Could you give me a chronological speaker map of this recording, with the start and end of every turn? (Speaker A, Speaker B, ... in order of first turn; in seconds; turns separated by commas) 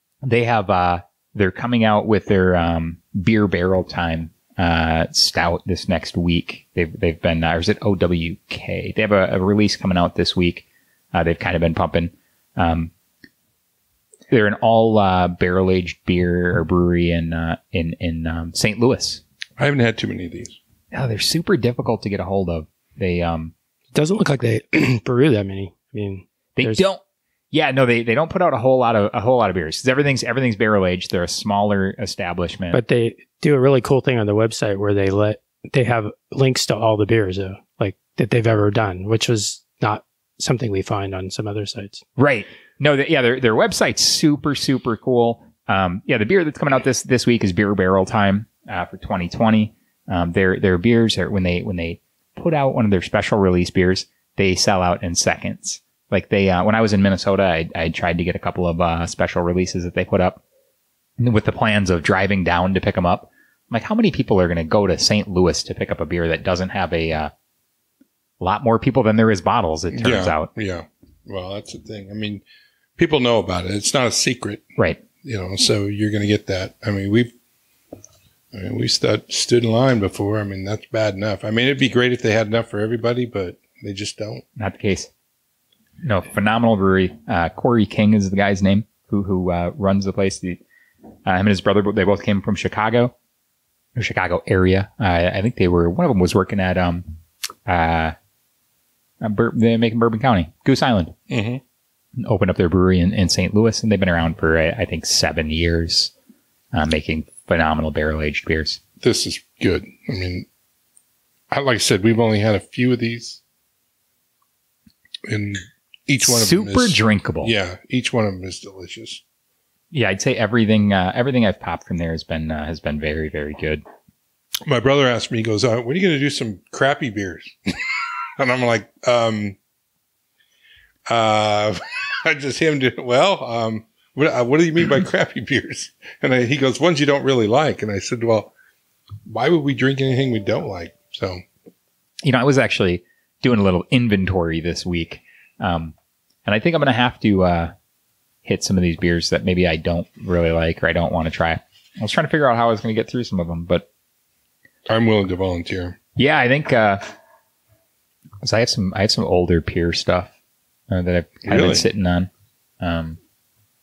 Speaker A: 0.2-12.9, Speaker A: 14.3-19.2, Speaker B: 19.6-20.6, Speaker A: 20.9-23.5, Speaker C: 23.9-26.8, Speaker A: 26.6-27.0, Speaker A: 27.5-32.8, Speaker C: 32.7-42.0, Speaker A: 42.2-60.4, Speaker A: 61.2-67.3, Speaker A: 68.4-70.5, Speaker B: 69.9-72.4, Speaker B: 73.0-77.3, Speaker B: 78.5-84.4, Speaker A: 84.6-85.1, Speaker A: 86.0-90.6, Speaker A: 91.2-93.1, Speaker A: 94.0-97.1, Speaker A: 97.7-98.1, Speaker A: 99.2-101.1, Speaker B: 101.3-101.6, Speaker A: 102.2-106.1, Speaker A: 106.7-108.8, Speaker B: 109.0-110.5, Speaker B: 111.5-113.4, Speaker B: 115.2-119.2, Speaker A: 116.2-117.5, Speaker A: 119.9-123.8, Speaker B: 124.7-129.6, Speaker B: 131.1-138.5, Speaker B: 139.2-141.4, Speaker A: 142.2-145.9, Speaker A: 146.4-147.7, Speaker A: 148.4-153.9, Speaker B: 154.9-156.0, Speaker A: 156.2-157.0, Speaker A: 158.4-160.3, Speaker A: 160.9-162.3, Speaker B: 161.4-161.9, Speaker A: 162.8-163.2